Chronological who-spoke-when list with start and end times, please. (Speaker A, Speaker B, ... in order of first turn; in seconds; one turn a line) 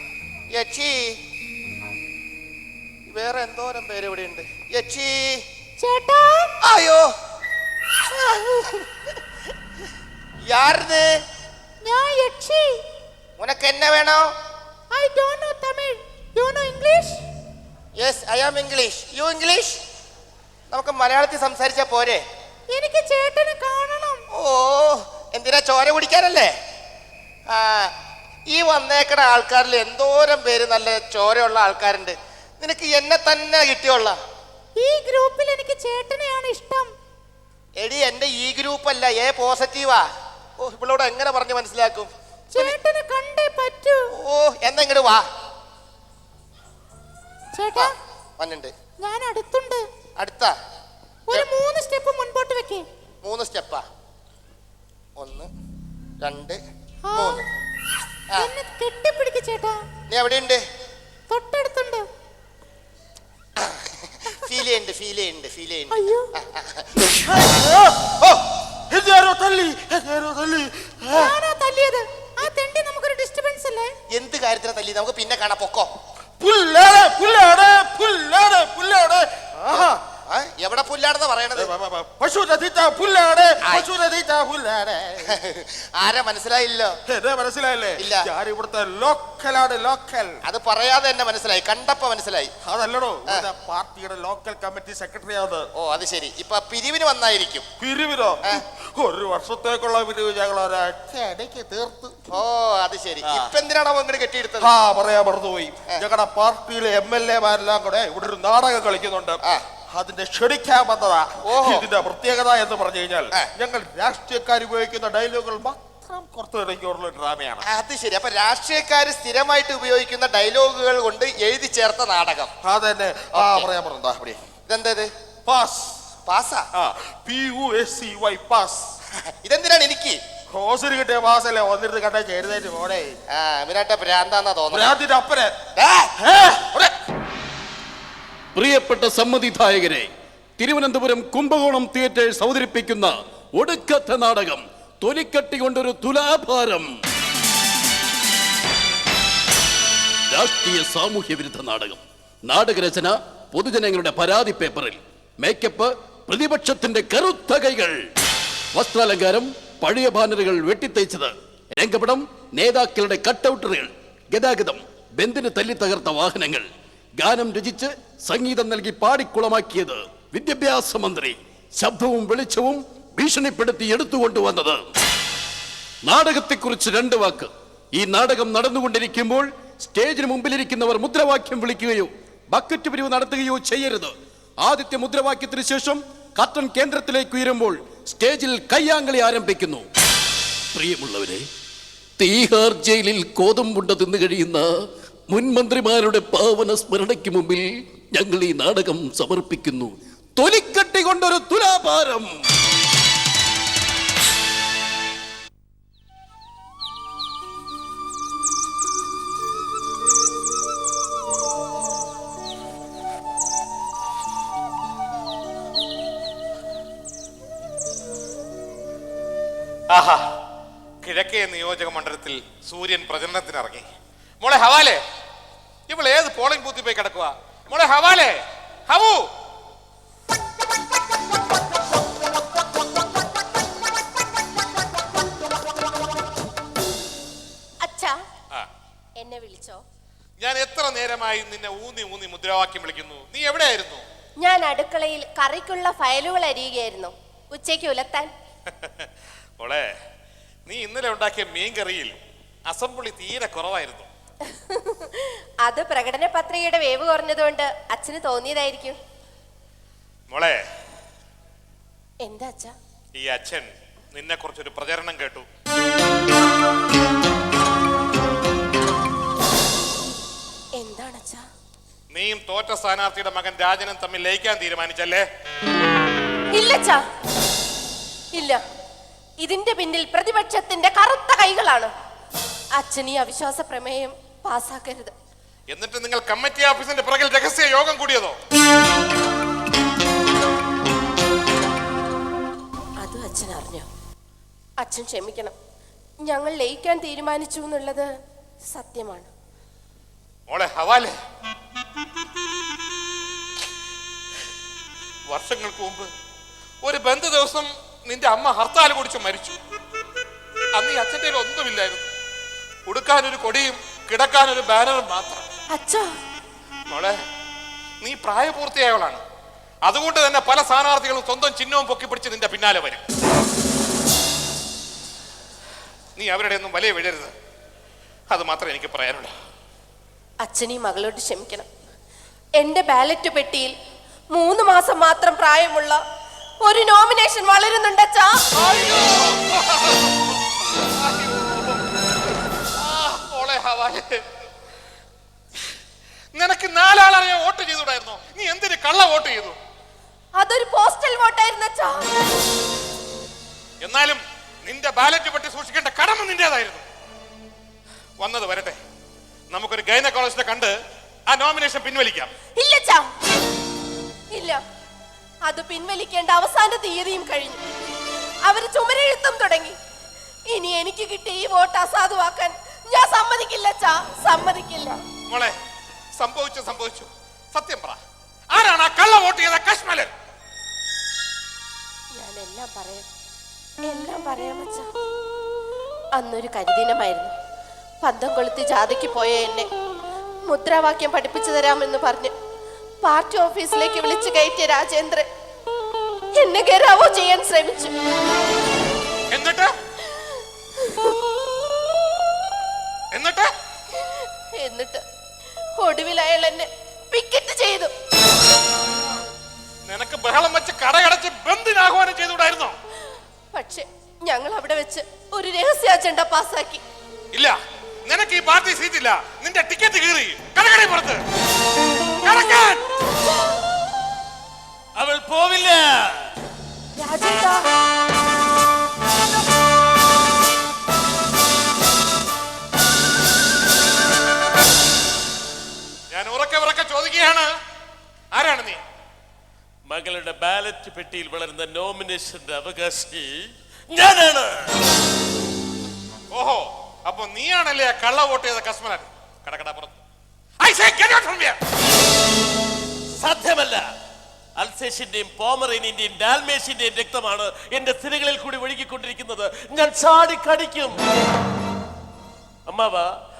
Speaker A: 0.5-1.2
Speaker A: 3.1-5.4
Speaker B: 5.8-6.5
Speaker A: 6.6-7.1
Speaker A: 8.2-8.8
Speaker A: 10.5-11.1
Speaker B: 11.8-12.8
Speaker A: 13.4-14.3
Speaker B: 14.9-17.2
Speaker A: 18.0-19.8
Speaker A: 20.7-22.2
Speaker B: 22.7-24.2
Speaker A: 24.3-26.5
Speaker A: 27.5-27.9
Speaker A: 28.5-34.2
Speaker B: 34.8-36.9
Speaker A: 37.8-40.0
Speaker A: 40.6-42.7
Speaker B: 42.5-44.0
Speaker A: 44.1-45.2
Speaker B: 47.5-47.9
Speaker A: 47.8-48.7
Speaker B: 49.0-49.8
Speaker A: 50.2-50.5
Speaker B: 51.3-52.9
Speaker A: 53.2-53.8
Speaker A: 55.2-55.5
Speaker A: 56.2-56.6
Speaker B: 57.1-57.4
Speaker A: 57.2-57.5
Speaker B: 58.3-59.8
Speaker A: 60.1-60.6
Speaker B: 61.3-62.0
Speaker A: 63.6-66.9
Speaker B: 65.9-66.3
Speaker C: 67.3-71.4
Speaker B: 71.1-73.9
Speaker A: 74.1-75.9
Speaker C: 76.4-80.0
Speaker A: 79.7-81.7
Speaker C: 81.5-85.3
Speaker A: 83.6-83.9
Speaker A: 85.2-87.0
Speaker C: 87.1-90.4
Speaker A: 88.0-88.3
Speaker A: 90.4-92.5
Speaker C: 92.6-95.7
Speaker A: 95.8-97.7
Speaker C: 97.8-102.2
Speaker A: 102.3-104.7
Speaker C: 104.6-117.7
Speaker A: 111.5-111.9
Speaker A: 117.6-122.5
Speaker C: 122.6-124.4
Speaker A: 123.3-123.7
Speaker A: 124.7-125.1
Speaker C: 125.5-126.1
Speaker A: 126.2-126.7
Speaker C: 126.7-128.9
Speaker A: 129.4-130.2
Speaker C: 130.5-133.2
Speaker A: 133.3-134.9
Speaker C: 134.7-135.5
Speaker A: 135.8-136.1
Speaker C: 136.2-136.9
Speaker D: 138.5-146.9
Speaker D: 150.3-158.0
Speaker D: 158.7-166.7
Speaker D: 167.2-174.8
Speaker D: 176.0-184.1
Speaker D: 184.6-189.9
Speaker D: 190.7-191.4
Speaker D: 192.2-194.7
Speaker D: 195.3-202.3
Speaker E: 219.9-220.2
Speaker E: 221.0-223.8
Speaker E: 224.4-225.0
Speaker E: 225.9-228.3
Speaker E: 228.9-229.2
Speaker F: 237.8-238.2
Speaker F: 239.2-239.8
Speaker E: 240.4-244.0
Speaker F: 244.4-248.3
Speaker E: 248.8-249.1
Speaker E: 249.6-249.9
Speaker E: 250.7-252.1
Speaker E: 252.7-254.1
Speaker F: 254.5-259.0
Speaker E: 260.3-260.6
Speaker F: 262.2-262.7
Speaker E: 263.1-265.4
Speaker F: 270.8-271.4
Speaker E: 272.1-275.2
Speaker F: 276.5-277.0
Speaker F: 278.3-278.6
Speaker F: 279.4-281.9
Speaker F: 282.7-285.1
Speaker E: 285.7-288.4
Speaker F: 293.0-293.9
Speaker F: 294.8-295.5
Speaker F: 296.3-298.1
Speaker F: 298.7-299.3
Speaker E: 300.5-301.1
Speaker E: 305.3-306.1
Speaker E: 306.8-309.6
Speaker E: 310.8-312.1
Speaker E: 312.9-315.4
Speaker F: 315.7-316.1
Speaker E: 316.9-317.1
Speaker E: 318.0-319.2
Speaker E: 319.9-323.0
Speaker E: 326.2-327.3
Speaker E: 328.3-329.3
Speaker F: 330.4-331.7
Speaker F: 332.6-333.7
Speaker F: 334.3-336.0
Speaker F: 336.6-338.4
Speaker E: 338.6-340.1
Speaker E: 341.0-341.8
Speaker E: 342.8-344.2
Speaker E: 346.3-349.6
Speaker F: 350.4-352.1
Speaker E: 353.8-356.9
Speaker E: 358.2-358.8
Speaker E: 359.5-360.7
Speaker E: 361.3-362.3
Speaker F: 362.6-363.1
Speaker F: 364.3-364.6
Speaker F: 365.4-367.6
Speaker F: 368.4-369.8
Speaker F: 370.5-375.0
Speaker E: 375.3-375.6
Speaker E: 376.2-378.0
Speaker E: 378.5-380.1
Speaker F: 382.1-383.1
Speaker F: 383.8-384.9
Speaker F: 386.1-387.4
Speaker F: 388.0-389.7
Speaker F: 390.5-392.3
Speaker F: 393.0-395.3
Speaker F: 396.3-397.9
Speaker E: 399.3-399.7
Speaker F: 400.8-401.1
Speaker E: 403.1-403.5
Speaker F: 404.0-405.0
Speaker F: 405.8-407.9
Speaker E: 409.9-412.8
Speaker F: 413.5-416.8
Speaker E: 418.1-421.2
Speaker E: 422.2-422.8
Speaker G: 424.9-426.3
Speaker F: 426.9-427.7
Speaker E: 436.1-437.5
Speaker E: 438.3-438.8
Speaker G: 439.9-443.3
Speaker G: 443.9-444.8
Speaker E: 446.3-450.0
Speaker E: 450.6-451.6
Speaker G: 453.1-453.8
Speaker G: 454.6-461.0
Speaker G: 462.7-463.1